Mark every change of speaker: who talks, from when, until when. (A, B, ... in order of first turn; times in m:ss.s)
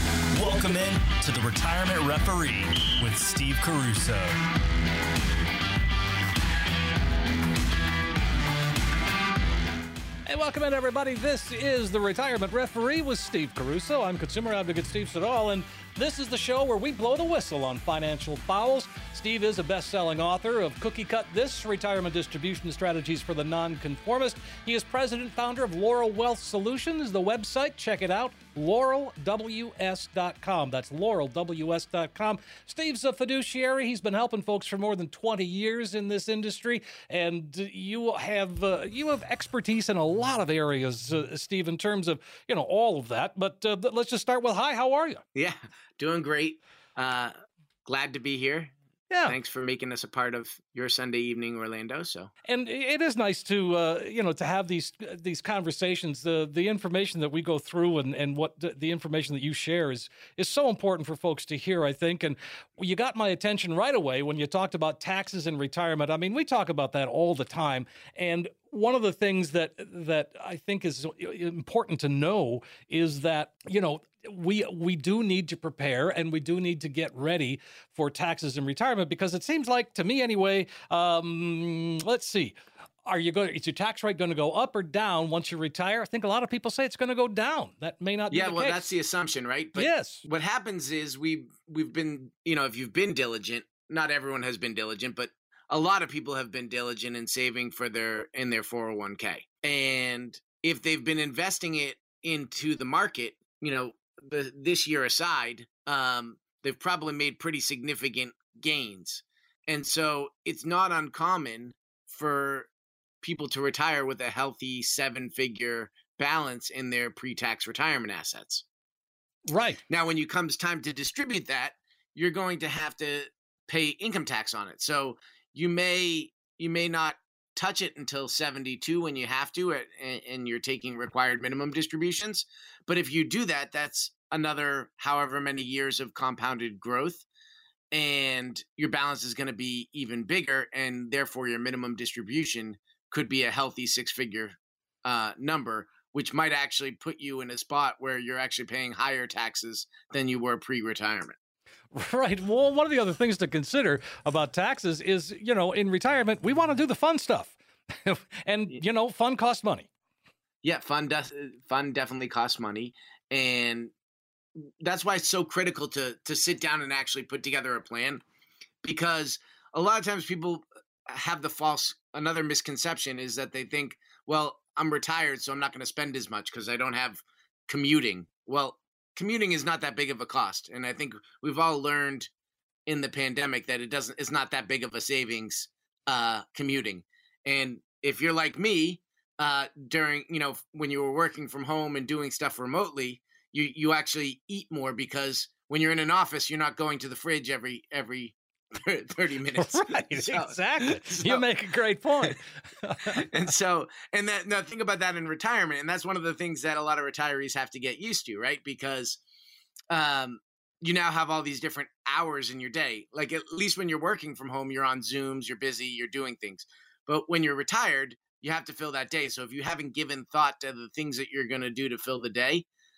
0:00.3-0:04.4 A
0:10.3-0:45.2 B
0:45.4-0:47.4 C
0:47.9-0:52.3 C
0:49.1-0:49.4 B
0:52.4-1:28.9 B
1:28.3-1:52.7 C
1:29.8-1:30.2 B
1:53.2-1:58.6 C
1:59.5-1:59.8 B
1:59.9-2:17.2 C
2:17.9-2:31.4 C
2:31.9-2:39.9 B
2:40.6-2:43.9 C
2:44.6-2:48.2 C
2:48.8-3:02.3 C
3:02.9-3:21.4 C
3:19.6-3:23.2 B
3:23.1-3:29.2 C
3:29.9-3:42.6 C